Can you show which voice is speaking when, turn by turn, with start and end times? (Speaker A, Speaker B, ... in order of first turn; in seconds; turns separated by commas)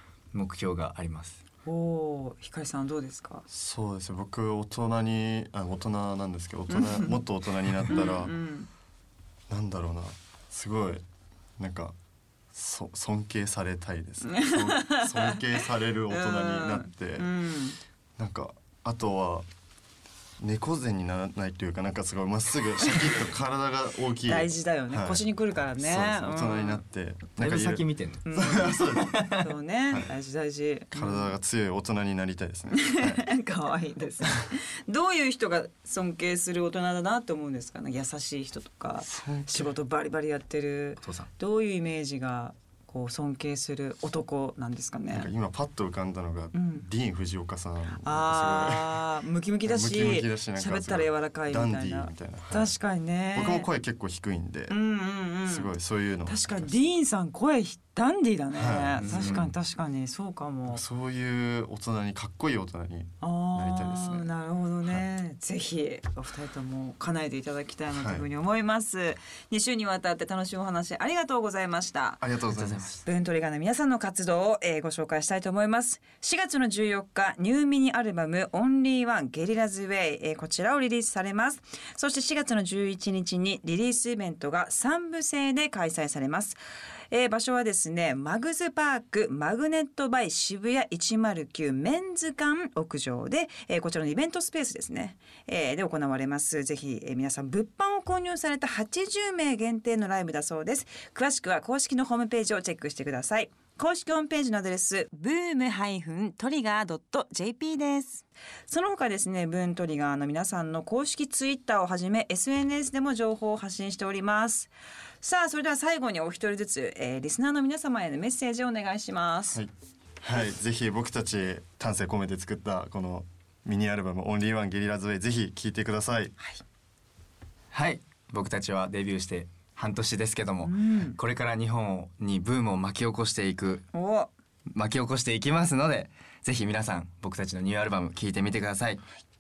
Speaker A: 0.3-1.4, Speaker B: 1.6-3.5, Speaker C: 3.5-8.3, Speaker B: 6.7-7.2, Speaker B: 7.9-8.7, Speaker C: 9.5-11.1, Speaker C: 11.6-11.9, Speaker C: 12.5-17.3, Speaker B: 14.3-15.4, Speaker B: 16.1-17.8, Speaker C: 18.2-19.5, Speaker C: 20.4-25.2, Speaker B: 24.2-26.8, Speaker C: 25.8-29.2, Speaker A: 27.4-29.5, Speaker B: 28.2-31.3, Speaker C: 30.9-33.3, Speaker B: 32.7-45.3, Speaker C: 39.0-39.7, Speaker A: 41.0-41.3, Speaker C: 45.1-49.0, Speaker B: 46.5-46.9, Speaker B: 48.0-53.7, Speaker C: 49.6-52.8, Speaker C: 53.3-54.8, Speaker B: 54.7-55.7, Speaker C: 55.5-56.8, Speaker B: 56.3-60.8, Speaker C: 58.6-59.5, Speaker A: 59.0-59.5, Speaker C: 60.7-64.3, Speaker B: 63.2-72.2, Speaker C: 68.0-68.3, Speaker C: 72.2-72.9, Speaker A: 72.5-73.0, Speaker B: 73.0-119.6, Speaker C: 120.2-126.3, Speaker A: 127.7-133.9, Speaker B: 130.6-131.2, Speaker B: 133.9-134.3, Speaker A: 134.7-139.1